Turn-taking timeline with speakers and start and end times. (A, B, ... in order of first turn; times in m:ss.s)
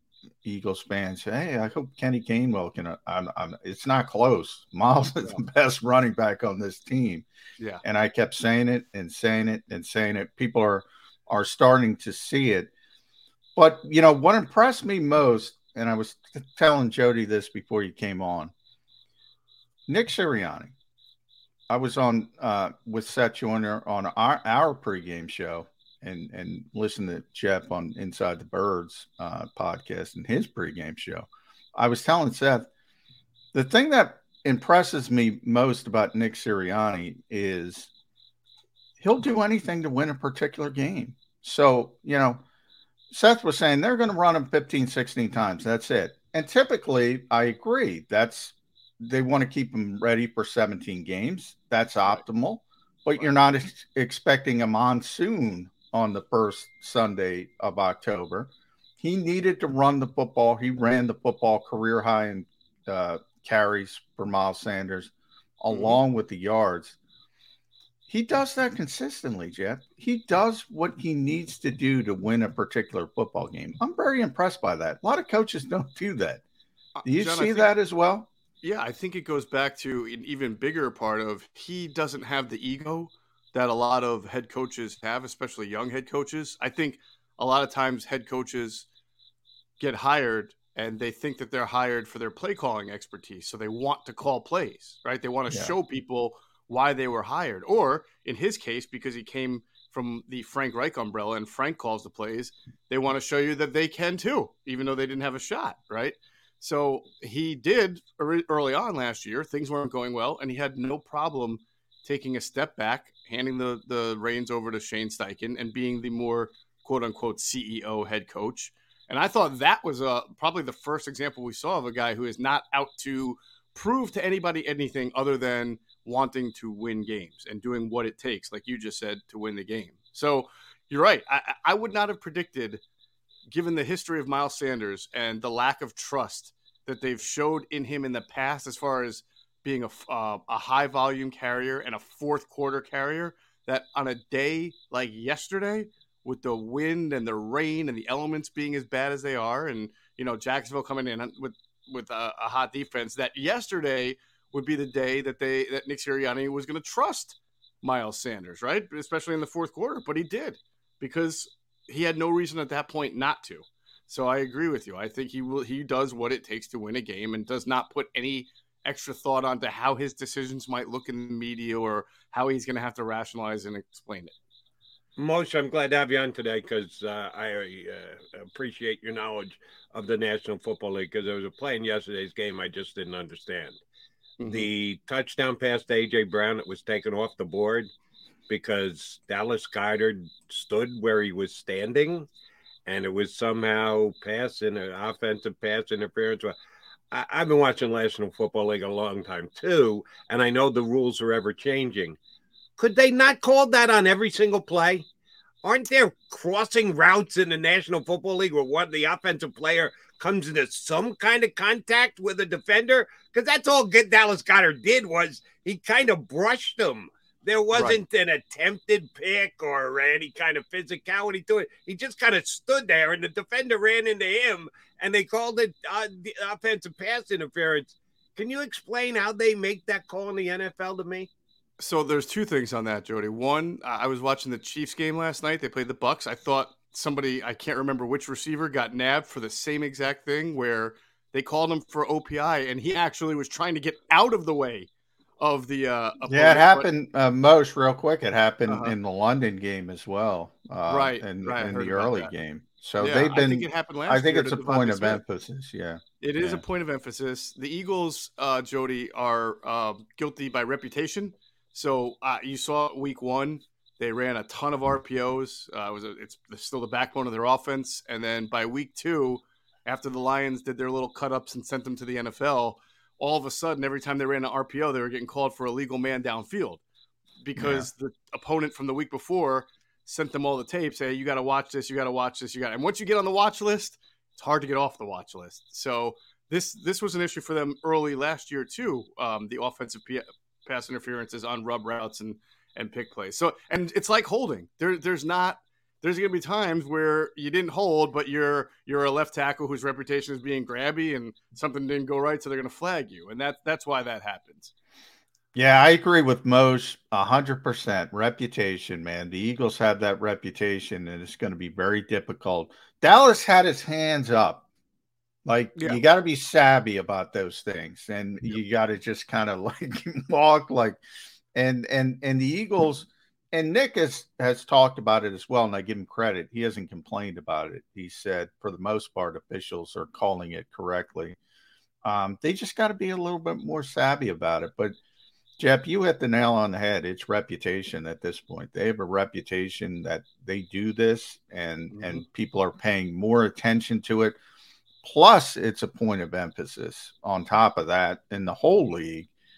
0:00.4-0:07.3 A
0:07.8-0:12.7 A
0:13.6-0:18.5 A
0:19.9-0:20.7 A
0:21.7-0:32.7 A
0:33.5-0:37.9 A
0:39.0-0:42.4 A
0:43.1-1:07.0 A
1:05.7-1:06.0 B
1:08.1-1:16.4 A
1:17.0-1:17.7 B
1:17.0-1:18.3 A
1:18.6-1:28.9 B
1:29.8-2:12.8 B
1:35.5-1:35.7 A
2:13.5-2:54.3 B
2:55.2-3:03.8 C
3:04.4-3:04.7 B
3:04.5-3:07.9 C
3:08.5-3:12.3 C
3:12.9-3:16.6 C
3:17.1-3:22.2 C
3:22.8-3:25.0 C
3:25.6-3:51.3 C
3:37.7-3:38.0 B
3:51.8-4:06.9 B
4:06.2-4:16.6 A
4:08.7-4:09.0 B
4:10.9-4:12.3 B
4:13.0-4:15.2 B
4:16.2-4:36.8 B
4:37.4-5:04.7 B
4:37.6-4:37.9 A
5:05.6-5:14.6 A
5:15.4-5:21.0 A
5:15.7-5:16.0 B
5:21.5-5:31.4 A
5:32.0-5:35.0 A
5:35.6-5:44.4 A
5:41.9-5:42.2 B
5:45.0-5:49.3 A